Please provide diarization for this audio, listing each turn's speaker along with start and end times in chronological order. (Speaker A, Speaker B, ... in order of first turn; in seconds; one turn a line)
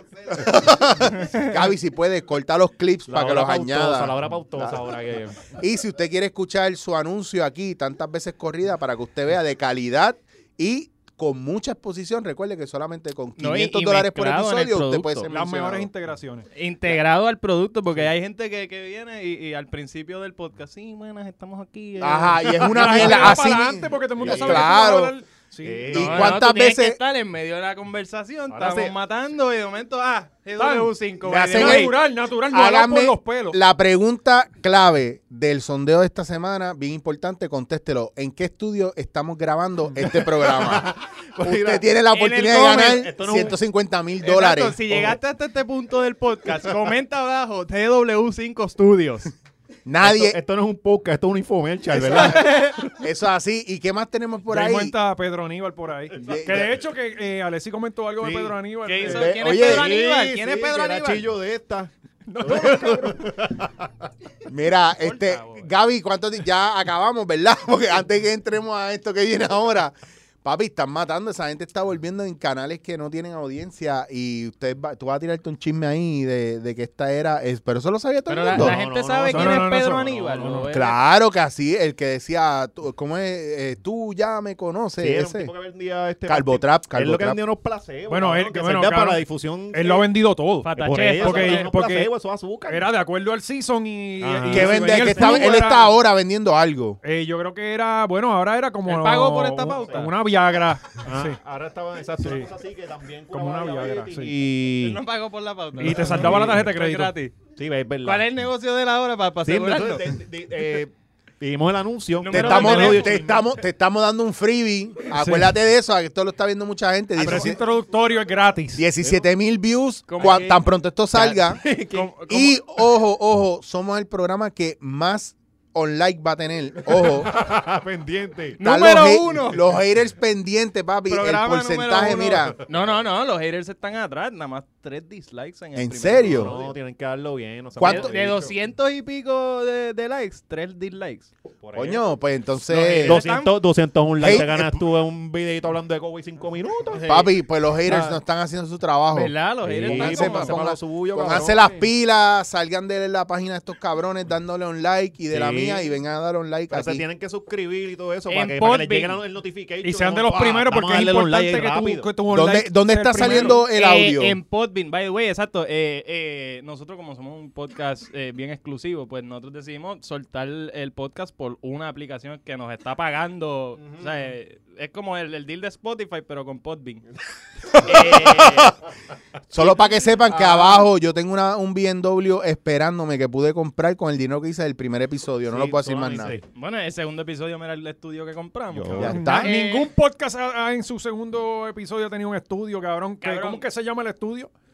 Speaker A: 0.2-4.8
Speaker B: 3.1-5.4
Speaker A: 5.5-15.9
Speaker C: 13.4-15.3
Speaker D: 15.3-16.5
Speaker C: 16.5-23.4
Speaker A: 22.0-25.1
Speaker D: 22.6-25.9
Speaker B: 24.2-24.7
Speaker B: 25.6-26.4
Speaker A: 25.9-27.0
Speaker C: 25.9-31.9
Speaker B: 28.5-28.9
Speaker D: 30.6-30.9
Speaker A: 31.2-32.0
Speaker D: 31.5-33.6
Speaker A: 32.5-44.8
Speaker B: 40.0-41.8
Speaker C: 42.1-43.4
Speaker B: 43.1-43.5
Speaker C: 44.2-49.3
Speaker B: 44.9-45.1
Speaker A: 49.9-50.4
Speaker B: 50.0-52.7
Speaker C: 52.0-52.8
Speaker A: 52.0-54.9
Speaker D: 54.5-59.3
Speaker A: 56.1-56.7
Speaker B: 58.2-58.5
Speaker C: 58.8-61.3
Speaker A: 59.0-59.9
Speaker B: 59.2-64.1
Speaker D: 62.3-63.4
Speaker A: 64.4-78.8
Speaker C: 64.9-65.7
Speaker C: 78.3-81.0
Speaker B: 78.5-80.7
Speaker D: 79.3-80.7
Speaker A: 80.7-85.5
Speaker B: 85.0-90.1
Speaker A: 86.3-87.4
Speaker D: 88.1-92.1
Speaker C: 90.6-91.7
Speaker B: 90.8-92.9
Speaker D: 92.7-95.9
Speaker B: 94.2-95.3
Speaker A: 94.5-97.0
Speaker D: 97.0-101.4
Speaker C: 98.9-100.1
Speaker B: 99.8-100.1
Speaker B: 101.0-105.0
Speaker D: 102.2-102.5
Speaker D: 103.3-104.3
Speaker C: 104.8-107.3
Speaker D: 105.8-107.3
Speaker B: 105.8-106.7
Speaker B: 107.5-108.2
Speaker C: 108.0-110.1
Speaker B: 109.4-113.5
Speaker C: 112.2-113.2
Speaker A: 112.3-117.6
Speaker D: 112.6-112.9
Speaker D: 115.1-115.5
Speaker D: 117.2-118.8
Speaker A: 118.8-121.6
Speaker B: 119.0-119.3
Speaker C: 120.1-120.5
Speaker B: 120.2-120.6
Speaker B: 121.1-122.1
Speaker C: 121.4-122.8
Speaker A: 122.3-127.3
Speaker B: 126.9-128.6
Speaker C: 128.6-129.7
Speaker A: 128.6-132.6
Speaker C: 131.1-136.7
Speaker B: 132.3-133.0
Speaker A: 135.7-136.5
Speaker B: 136.3-138.5
Speaker A: 137.8-138.1
Speaker C: 137.8-141.3
Speaker B: 141.6-142.0
Speaker A: 141.7-143.2
Speaker B: 142.7-147.1
Speaker C: 142.7-143.6
Speaker A: 144.2-144.8
Speaker C: 146.9-147.3
Speaker A: 147.1-157.0
Speaker B: 147.9-148.2
Speaker C: 149.1-150.6
Speaker B: 149.6-151.9
Speaker B: 155.3-155.9
Speaker B: 156.7-162.1
Speaker C: 158.3-159.2
Speaker D: 159.8-163.6
Speaker A: 162.3-164.4
Speaker B: 163.2-163.5
Speaker C: 163.2-177.0
Speaker B: 173.8-174.1
Speaker C: 177.8-178.8
Speaker A: 177.8-178.2
Speaker A: 179.5-186.3
Speaker B: 180.3-180.9
Speaker B: 185.5-186.4
Speaker C: 186.5-189.9
Speaker B: 188.7-189.2
Speaker A: 188.9-189.5
Speaker D: 189.1-194.5
Speaker C: 193.2-193.6